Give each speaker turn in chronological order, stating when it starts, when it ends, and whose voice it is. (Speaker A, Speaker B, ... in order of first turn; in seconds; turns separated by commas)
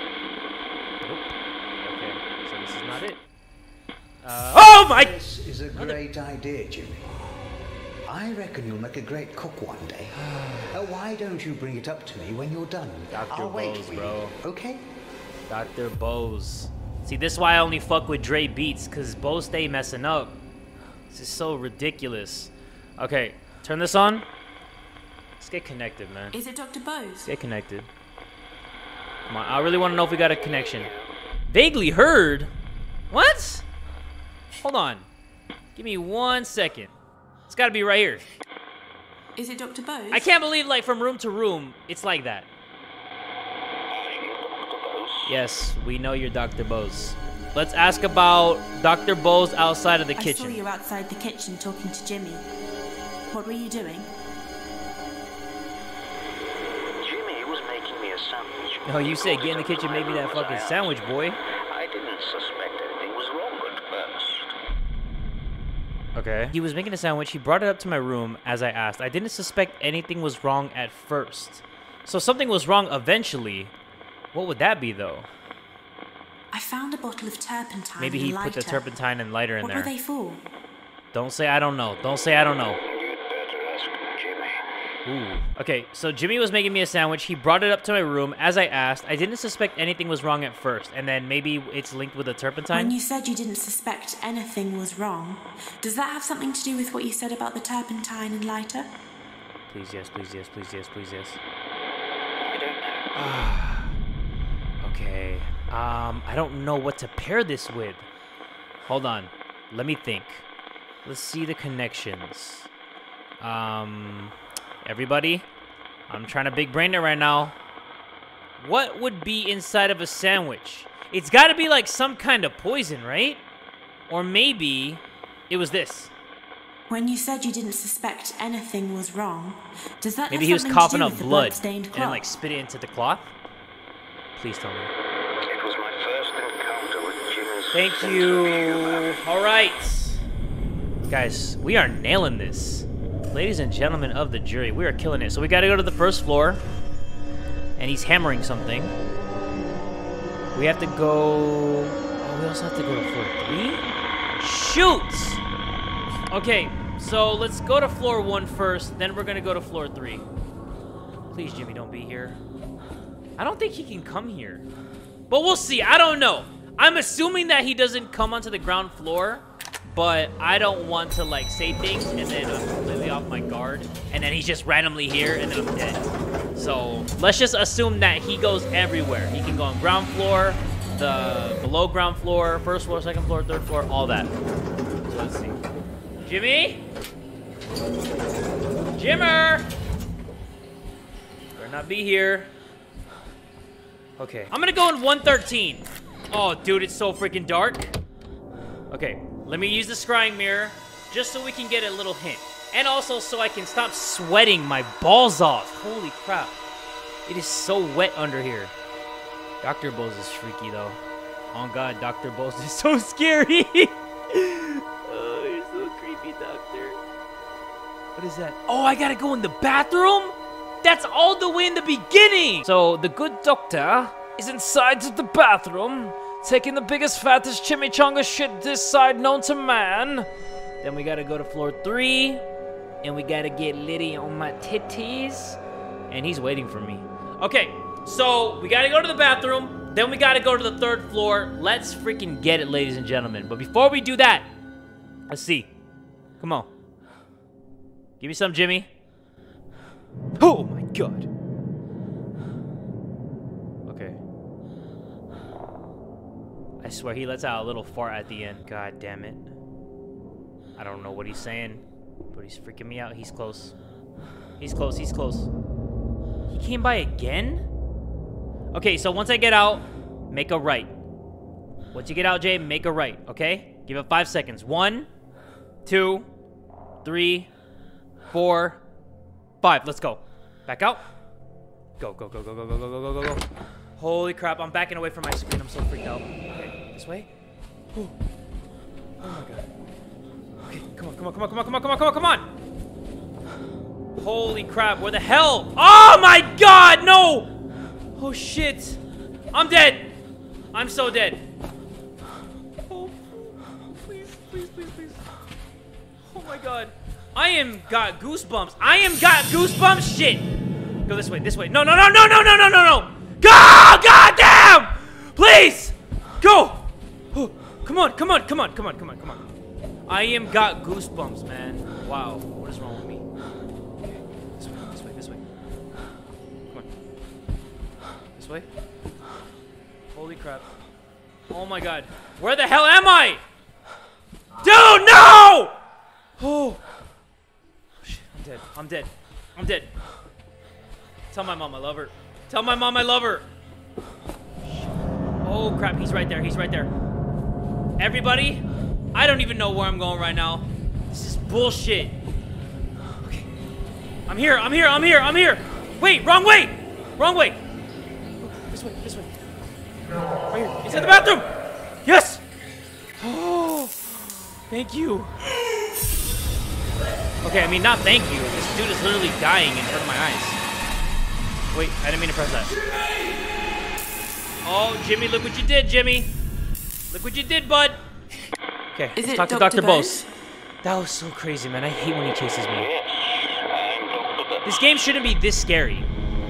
Speaker A: 1.0-3.2, Speaker A: 4.2-5.2, Speaker B: 4.5-7.2, Speaker A: 5.7-6.0, Speaker B: 8.1-14.8, Speaker A: 10.2-10.7, Speaker A: 13.1-14.3, Speaker A: 15.5-20.4, Speaker A: 21.1-24.2, Speaker A: 25.4-26.4, Speaker C: 26.3-27.3, Speaker A: 27.2-27.9, Speaker A: 29.3-30.9, Speaker D: 29.9-31.1, Speaker A: 31.5-32.5, Speaker A: 33.1-33.6, Speaker A: 34.6-35.1, Speaker A: 35.8-36.9, Speaker A: 37.5-38.2, Speaker C: 39.4-40.3, Speaker A: 40.1-42.5, Speaker D: 43.9-45.3, Speaker A: 45.3-50.6, Speaker C: 50.2-52.5, Speaker C: 53.3-54.1, Speaker D: 57.0-61.0, Speaker A: 58.8-61.4, Speaker D: 61.7-64.5, Speaker A: 66.1-73.7, Speaker A: 74.3-75.3, Speaker C: 76.5-78.8, Speaker A: 78.0-79.9, Speaker C: 79.6-80.4, Speaker A: 81.1-82.8, Speaker D: 82.3-84.6, Speaker A: 85.0-92.9, Speaker C: 92.7-98.9, Speaker A: 99.7-101.4, Speaker D: 102.5-103.1, Speaker A: 103.1-104.0, Speaker A: 104.8-108.1, Speaker A: 108.9-110.5, Speaker A: 111.0-112.7, Speaker A: 113.4-115.5, Speaker A: 116.1-117.5, Speaker A: 118.6-123.4, Speaker A: 124.1-126.1, Speaker C: 126.9-132.2, Speaker A: 130.3-133.3, Speaker A: 134.3-134.9, Speaker D: 135.4-139.2, Speaker A: 137.7-140.2, Speaker A: 141.1-146.6, Speaker A: 147.8-148.9, Speaker A: 150.5-153.8, Speaker A: 154.4-155.4, Speaker A: 156.3-160.2, Speaker A: 161.3-162.4, Speaker A: 163.4-164.7, Speaker A: 165.3-176.0, Speaker A: 176.6-184.3, Speaker A: 185.1-185.6, Speaker A: 186.2-186.8, Speaker A: 188.9-189.7, Speaker A: 191.6-192.5, Speaker A: 194.2-197.9, Speaker A: 198.9-206.6, Speaker A: 207.2-208.7, Speaker A: 209.6-211.0, Speaker A: 211.5-217.0, Speaker A: 218.2-230.3, Speaker A: 230.8-232.4, Speaker A: 233.0-235.6, Speaker A: 236.1-244.5, Speaker A: 245.3-245.7, Speaker A: 246.4-246.7, Speaker A: 248.2-248.9, Speaker A: 250.4-251.3, Speaker A: 253.8-254.2, Speaker A: 256.8-259.5, Speaker A: 260.8-263.7, Speaker A: 264.6-265.5, Speaker A: 266.5-267.6, Speaker A: 268.7-270.9, Speaker A: 271.9-275.1, Speaker A: 275.8-276.3, Speaker A: 277.0-277.5, Speaker A: 278.3-278.8, Speaker A: 279.6-281.0, Speaker A: 282.0-283.4, Speaker A: 284.0-287.3, Speaker A: 289.2-289.7, Speaker A: 290.6-292.4, Speaker A: 294.2-297.5, Speaker A: 298.2-299.0, Speaker A: 299.5-300.1, Speaker A: 300.7-301.4, Speaker A: 302.9-305.2, Speaker A: 306.2-310.5, Speaker A: 311.1-316.8, Speaker A: 317.3-319.4, Speaker A: 320.1-323.2, Speaker A: 324.0-325.4, Speaker A: 328.4-328.7, Speaker A: 330.1-330.6, Speaker A: 331.5-333.4, Speaker A: 334.6-335.8, Speaker A: 336.4-336.8, Speaker A: 338.0-339.9, Speaker A: 341.3-343.5, Speaker A: 345.4-346.9, Speaker A: 348.0-348.6, Speaker A: 349.1-352.1, Speaker A: 353.2-353.5, Speaker A: 354.3-357.6, Speaker A: 358.4-359.3, Speaker A: 360.5-361.4, Speaker A: 362.0-362.4, Speaker A: 363.2-365.3, Speaker A: 367.4-370.6, Speaker A: 371.7-372.7, Speaker A: 374.6-376.3, Speaker A: 377.1-378.0, Speaker A: 378.9-380.2, Speaker C: 379.2-380.2, Speaker A: 380.8-382.9, Speaker D: 382.7-385.0, Speaker A: 384.6-386.1